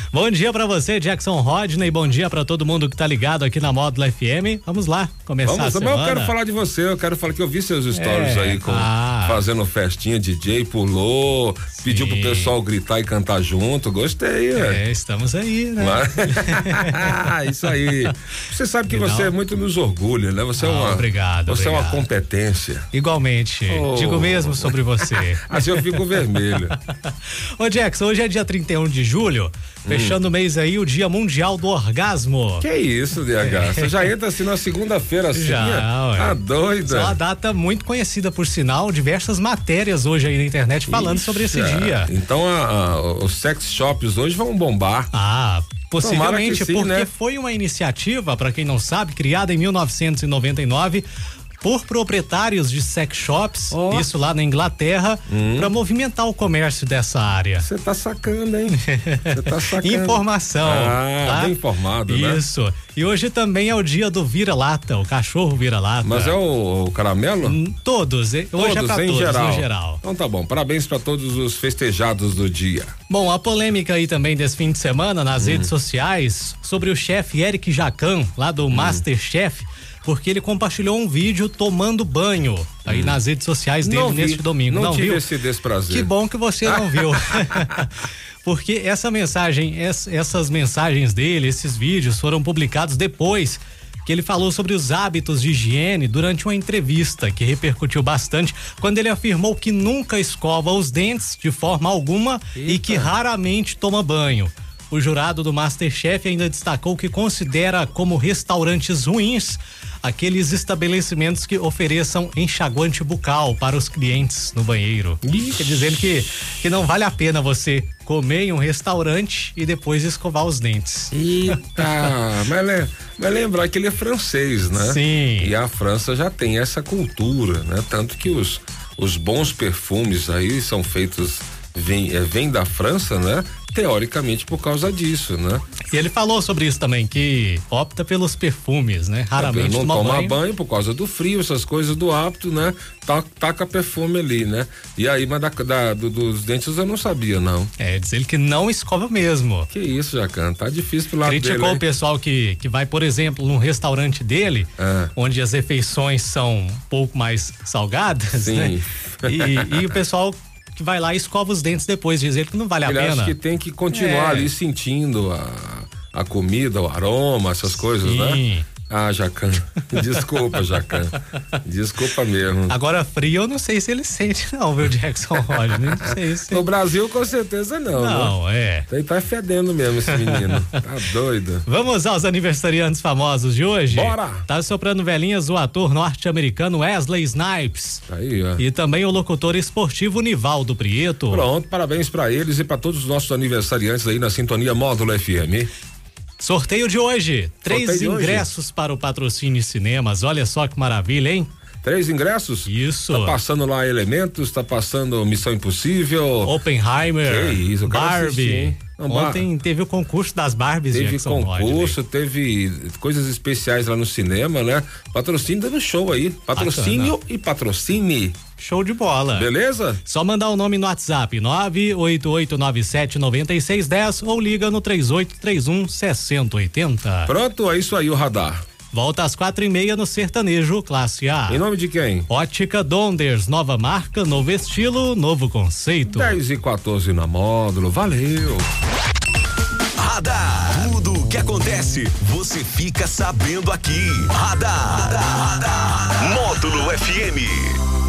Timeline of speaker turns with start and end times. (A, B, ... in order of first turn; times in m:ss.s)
0:00.1-0:06.4 A
0:05.4-0:14.8 B
0:07.9-0:09.4 A
0:11.8-0:12.6 A
0:14.6-0:17.2 A
0:15.8-0:22.9 B
0:18.9-0:19.4 A
0:20.6-0:22.1 A
0:22.9-0:26.0 A
0:23.7-0:26.8 B
0:26.9-0:32.7 A
0:29.9-0:30.2 B
0:32.6-0:37.2 B
0:33.4-0:34.0 A
0:35.3-0:42.1 A
0:40.9-0:45.1 B
0:45.1-0:51.1 A
0:46.0-0:47.1 B
0:51.6-0:57.7 A
0:53.7-0:54.1 B
0:55.3-0:55.7 B
0:57.6-1:02.4 B
0:58.7-1:06.4 A
1:06.0-1:07.6 B
1:07.4-1:10.0 A
1:08.6-1:13.0 B
1:13.1-1:25.2 A
1:15.4-1:15.7 B
1:18.7-1:19.0 B
1:22.9-1:23.2 B
1:23.8-1:26.1 B
1:25.9-2:01.9 A
1:26.7-1:27.8 B
1:42.6-1:43.1 B
1:55.2-1:55.7 B
2:01.1-2:15.6 B
2:04.8-2:05.5 A
2:15.9-2:20.4 A
2:19.4-2:27.7 B
2:27.8-2:29.7 A
2:29.7-2:31.8 B
2:31.2-2:43.4 A
2:34.8-2:35.1 B
2:38.4-2:39.9 B
2:42.8-2:52.7 B
2:43.9-2:44.5 A
2:47.6-2:48.7 A
2:49.9-2:50.6 A
2:52.7-2:56.7 A
2:55.5-2:58.4 B
2:57.9-2:58.9 A
2:58.9-3:01.6 B
3:00.1-3:00.8 A
3:01.6-3:08.0 A
3:03.9-3:04.4 B
3:08.1-3:08.6 B
3:08.6-3:11.5 A
3:11.3-3:15.7 B
3:16.4-3:21.5 A
3:17.7-3:18.6 B
3:21.8-3:26.6 B
3:22.6-3:23.4 A
3:26.4-3:32.0 A
3:27.3-3:29.5 B
3:30.9-3:38.4 B
3:36.6-3:37.2 A
3:38.6-3:39.5 A
3:39.4-3:40.0 B
3:40.0-3:47.3 A
3:47.3-3:48.6 B
3:48.9-3:51.6 A
3:51.5-3:52.3 B
3:52.3-3:56.4 A
3:56.1-3:58.7 B
4:00.0-4:07.8 C